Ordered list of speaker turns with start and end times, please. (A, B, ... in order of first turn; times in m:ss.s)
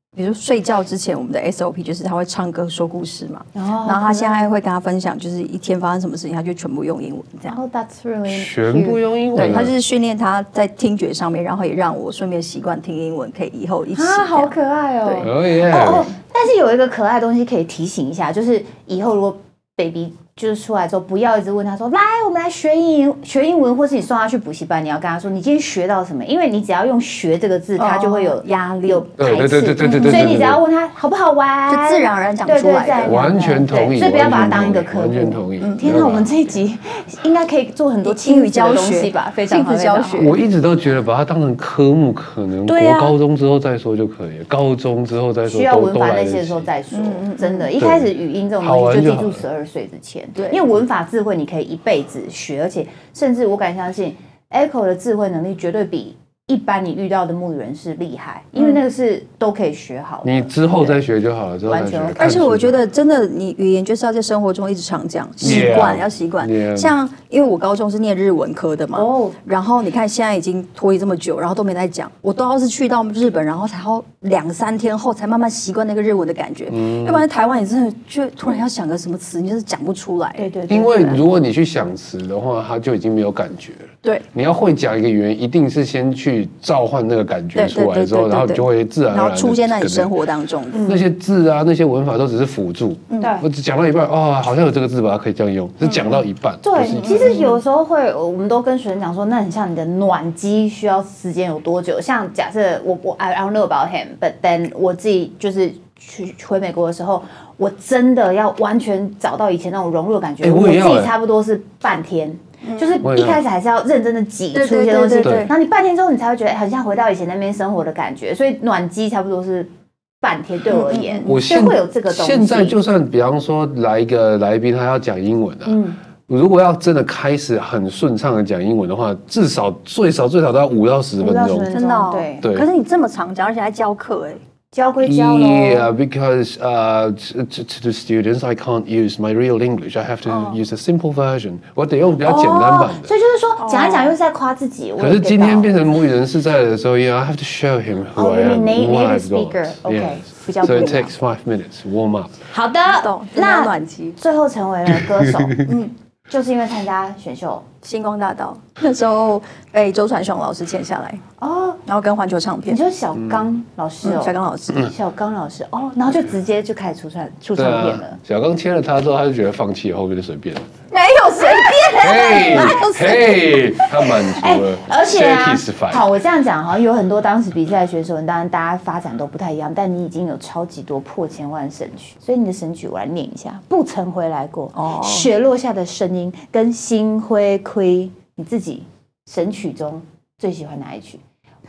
0:00.2-0:07.6 A
0:03.6-0:04.5 B
0:07.5-0:09.6 B
0:08.3-0:09.7 C
0:09.4-0:15.3 A
0:13.9-0:40.3 B
0:15.2-0:16.1 C
0:27.8-0:29.0 A
0:29.2-0:30.6 C
0:29.8-0:30.4 A
0:31.7-0:33.4 A
0:33.0-0:36.3 C
0:35.6-0:36.1 A
0:38.0-0:40.4 A
0:40.2-0:46.7 C
0:42.7-0:43.1 B
0:45.5-1:01.0 B
0:46.9-0:47.7 A
0:47.8-0:49.4 C
0:50.4-0:50.6 A
1:00.2-1:02.8 C
1:01.7-1:02.4 B
1:02.2-1:21.2 A
1:05.4-1:07.0 C
1:08.9-1:09.4 B
1:16.7-1:17.2 C
1:20.4-1:21.1 B
1:20.7-1:30.1 C
1:27.6-1:30.9 A
1:30.7-1:31.0 B
1:30.8-1:37.4 C
1:33.2-1:33.5 B
1:36.6-1:59.7 B
1:36.9-1:37.6 A
1:50.4-1:51.1 C
1:52.6-1:53.0 A
1:53.0-1:53.4 C
1:54.5-1:55.5 A
1:55.2-1:55.5 C
2:00.2-2:02.8 B
2:00.7-2:01.4 A
2:01.3-2:11.7 C
2:05.7-2:06.0 B
2:11.2-2:12.4 B
2:11.7-2:14.4 A
2:12.4-2:12.7 C
2:14.7-2:15.9 B
2:15.0-2:23.1 C
2:20.3-2:20.6 A
2:22.2-2:25.8 B
2:22.4-2:22.8 A
2:23.6-2:24.1 A
2:25.0-2:32.4 C
2:28.2-2:31.1 B
2:32.5-2:35.7 B
2:32.9-2:34.2 A
2:34.9-2:35.7 C
2:35.6-2:35.9 A
2:36.3-2:37.7 B
2:37.8-2:41.2 A
2:41.4-2:41.8 B
2:41.9-2:42.8 A
2:42.7-2:48.2 B
2:44.0-2:44.9 A
2:47.6-2:50.7 C
2:50.9-2:53.6 A
2:51.9-2:56.1 C
2:54.0-3:11.2 B
3:04.8-3:05.3 A